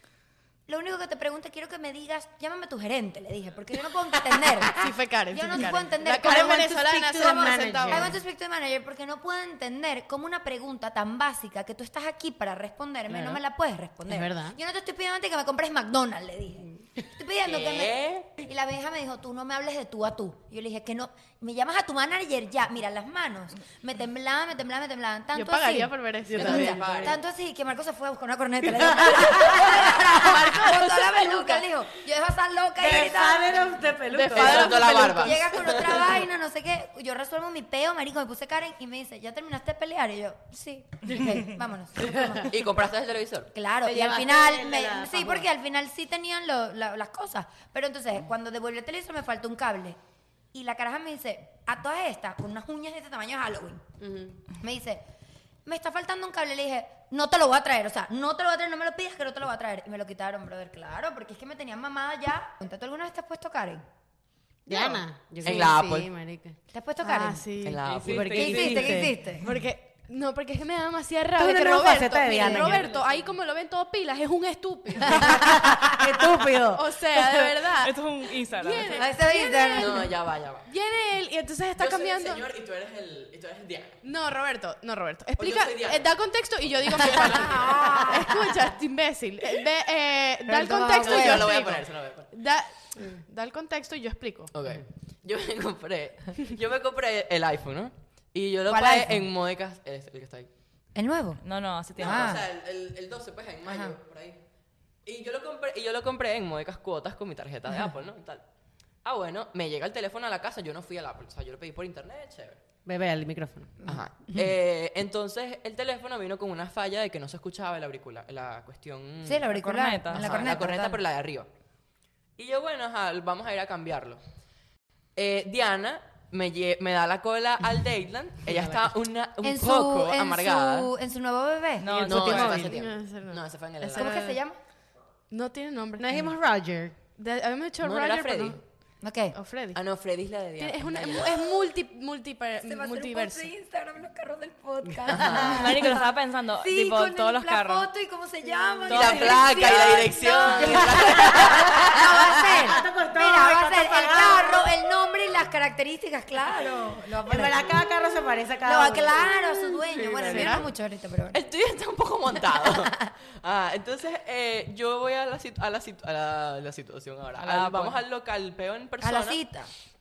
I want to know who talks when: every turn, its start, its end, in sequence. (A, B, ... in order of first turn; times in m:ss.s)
0:00.7-0:33.5 A
0:04.8-0:08.1 B
0:06.2-0:08.2 C
0:13.1-0:13.4 C
0:14.1-0:14.6 C
0:17.4-0:18.3 D
0:25.3-0:26.9 B
0:26.3-0:27.2 D
0:26.3-0:27.1 C
0:29.0-0:29.3 C
0:29.3-0:31.6 D
0:32.8-0:36.2 C
0:34.1-0:35.5 B
0:34.3-0:36.1 D
0:35.0-0:42.5 A
0:42.4-0:43.5 D
0:43.5-0:50.0 A
0:43.8-0:45.5 C
0:50.5-0:53.8 A
0:54.0-0:54.4 C
0:54.5-0:55.0 A
0:55.6-1:03.8 A
1:04.7-1:06.6 C
1:04.7-1:05.0 B
1:05.4-1:06.1 D
1:06.7-1:07.4 A
1:07.0-1:07.9 B
1:07.6-1:08.9 D
1:07.9-1:09.1 E
1:08.0-1:09.2 C
1:08.4-1:09.5 A
1:09.4-1:15.6 B
1:11.3-1:13.0 C
1:12.4-1:12.7 A
1:15.0-1:16.0 A
1:15.0-1:17.5 C
1:16.7-1:18.0 B
1:17.8-1:19.0 E
1:18.5-1:20.0 B
1:18.9-1:20.1 A
1:19.7-1:20.7 D
1:20.7-1:22.5 B
1:21.8-1:24.0 D
1:24.0-1:34.5 B
1:25.4-1:26.0 D
1:26.8-1:27.7 D
1:27.5-1:28.3 A
1:30.5-1:31.5 A
1:31.0-1:32.3 D
1:34.5-1:40.5 D
1:38.7-1:39.2 A
1:40.9-1:41.4 A
1:41.4-1:42.4 E
1:42.0-1:44.4 D
1:42.0-1:42.4 A
1:43.7-1:44.0 A
1:45.0-1:48.4 D
1:49.0-1:52.6 D
1:52.8-1:53.9 C
1:53.8-1:59.5 D
1:59.2-2:01.0 A
1:59.5-2:00.4 E
2:00.1-2:01.5 D
2:02.4-2:04.2 D
2:05.2-2:10.9 D
2:08.5-2:08.8 C
2:09.4-2:11.9 A
2:11.8-2:12.7 E
2:11.9-2:12.8 C
2:12.0-2:14.1 D
2:12.5-2:14.4 B
2:13.9-2:14.6 A
2:15.3-2:16.1 B
2:16.0-2:17.0 C
2:17.2-2:18.6 B
2:17.8-2:18.6 D
2:19.0-2:19.4 A
2:19.3-2:19.8 B
2:19.7-2:21.4 D
2:20.6-2:23.5 B
2:22.6-2:26.0 A
2:25.1-2:25.6 C
2:25.1-2:25.6 D
2:25.3-2:27.9 E
2:26.6-2:37.7 A
2:28.9-2:32.1 D
2:28.9-2:29.5 E
2:30.5-2:34.7 C
2:37.2-2:40.6 C
2:38.6-2:41.4 A
2:40.0-2:40.6 B
2:41.3-2:49.4 D
2:47.4-2:48.0 E
2:49.0-2:49.7 A